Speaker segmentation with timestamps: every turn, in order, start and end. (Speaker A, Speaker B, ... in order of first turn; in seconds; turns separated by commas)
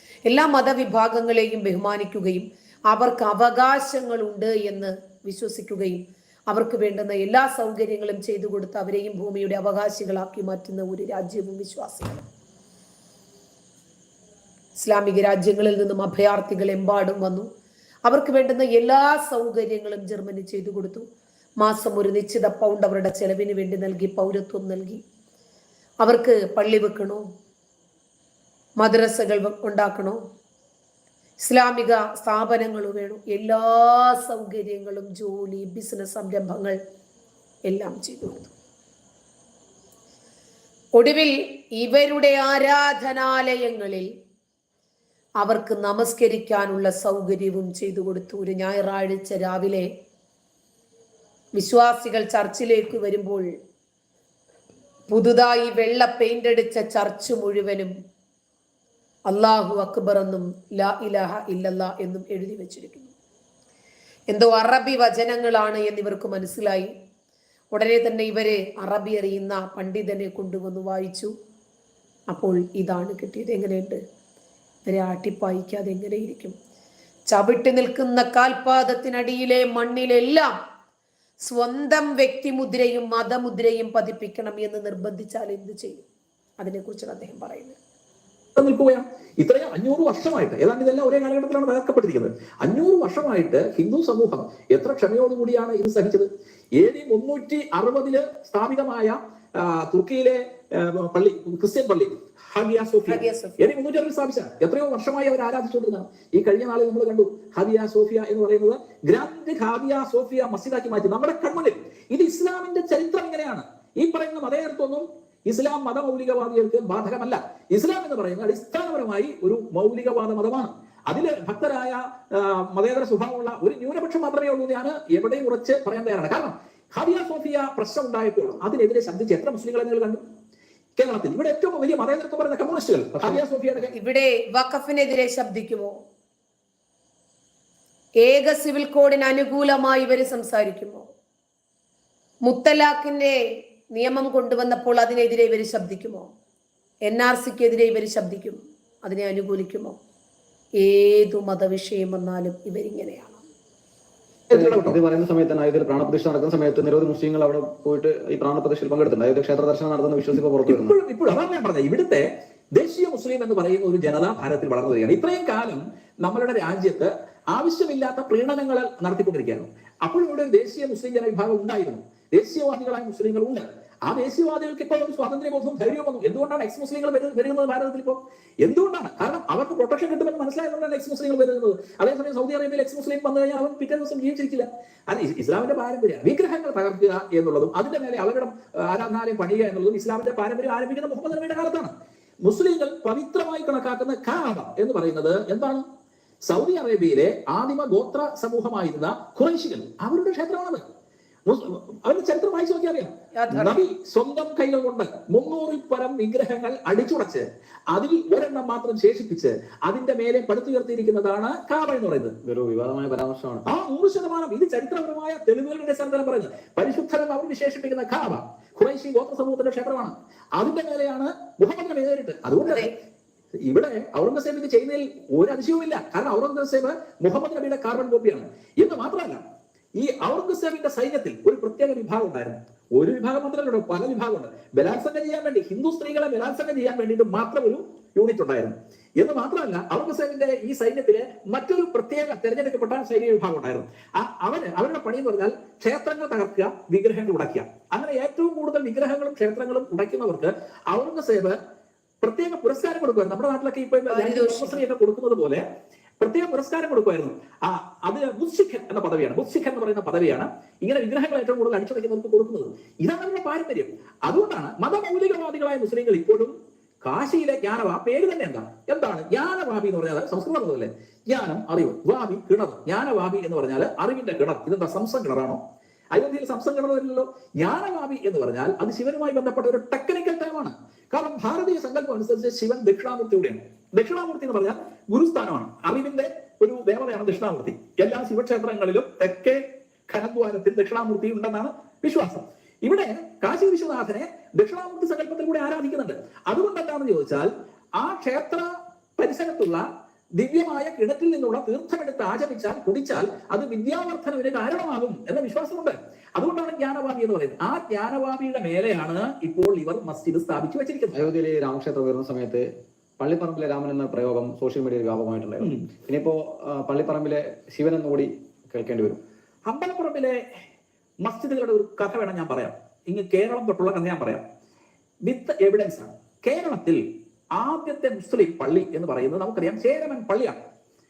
Speaker A: 0.3-12.2, Speaker A: 14.8-17.5, Speaker A: 18.1-21.1, Speaker A: 21.6-25.0, Speaker A: 26.0-27.2, Speaker A: 28.8-30.2, Speaker A: 31.4-36.8, Speaker A: 37.7-38.5, Speaker A: 41.0-44.1, Speaker A: 45.4-49.9, Speaker A: 51.6-53.5, Speaker A: 55.1-57.9, Speaker A: 59.3-63.1, Speaker A: 64.3-66.9, Speaker A: 67.7-71.3, Speaker A: 72.3-74.0, Speaker A: 74.8-76.5, Speaker A: 77.3-80.5, Speaker A: 81.4-86.1, Speaker A: 86.6-87.8, Speaker B: 88.6-96.3, Speaker B: 96.8-130.2, Speaker A: 103.1-103.5, Speaker B: 131.0-133.9, Speaker A: 133.9-135.9, Speaker A: 138.2-141.1, Speaker A: 142.5-143.4, Speaker A: 143.9-146.3, Speaker A: 147.1-150.0, Speaker A: 150.8-153.4, Speaker B: 154.5-155.0, Speaker C: 154.5-160.9, Speaker B: 160.7-191.9, Speaker B: 192.4-195.8, Speaker B: 196.5-200.8, Speaker B: 201.5-212.3, Speaker A: 203.4-203.8, Speaker C: 212.4-213.6, Speaker B: 213.7-222.9, Speaker A: 222.7-222.9, Speaker B: 223.7-229.4, Speaker B: 230.0-251.6, Speaker B: 252.2-255.6, Speaker A: 254.1-254.8, Speaker B: 256.2-266.5, Speaker B: 267.1-275.6, Speaker B: 276.1-298.7, Speaker B: 299.2-299.8, Speaker B: 300.4-311.3, Speaker C: 311.1-312.7, Speaker C: 313.2-319.2, Speaker B: 319.7-320.4, Speaker B: 321.2-324.4, Speaker B: 325.3-327.0, Speaker B: 327.6-330.6